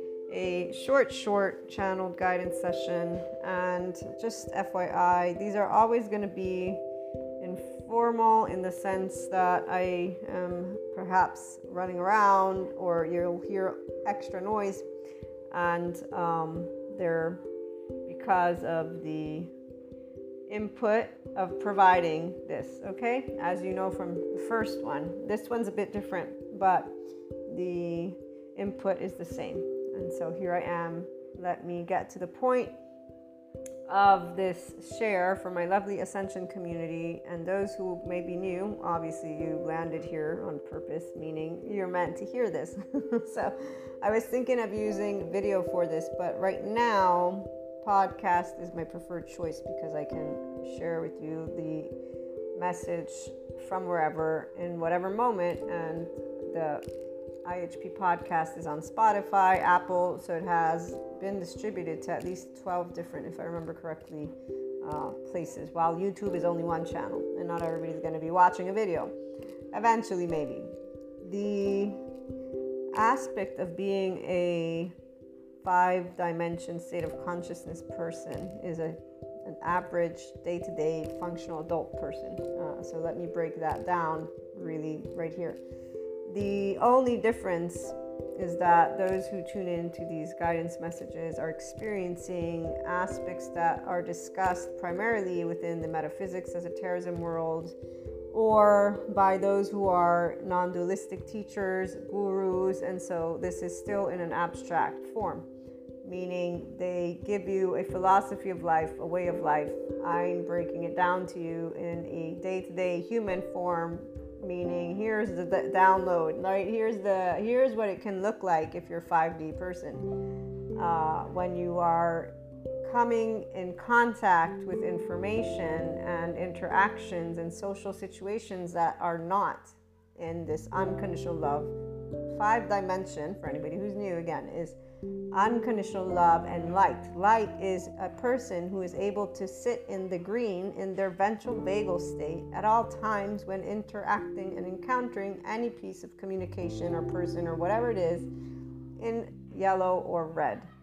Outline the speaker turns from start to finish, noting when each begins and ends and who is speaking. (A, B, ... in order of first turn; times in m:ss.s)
0:00.3-0:06.8 A
0:07.4-0:14.9 A
0:15.5-0:17.4 A
0:18.0-0:19.5 A
0:20.5-0:27.0 A
0:27.5-0:32.8 A
0:33.9-0:51.9 A
0:52.5-0:56.8 A
0:57.4-1:09.1 A
1:09.7-1:12.0 A
1:12.9-1:14.9 A
1:15.6-1:25.6 A
1:26.3-1:37.7 A
1:38.3-1:45.5 A
1:46.0-2:00.1 A
2:00.7-2:11.7 A
2:12.3-2:14.8 A
2:15.3-2:28.3 A
2:29.0-2:30.7 A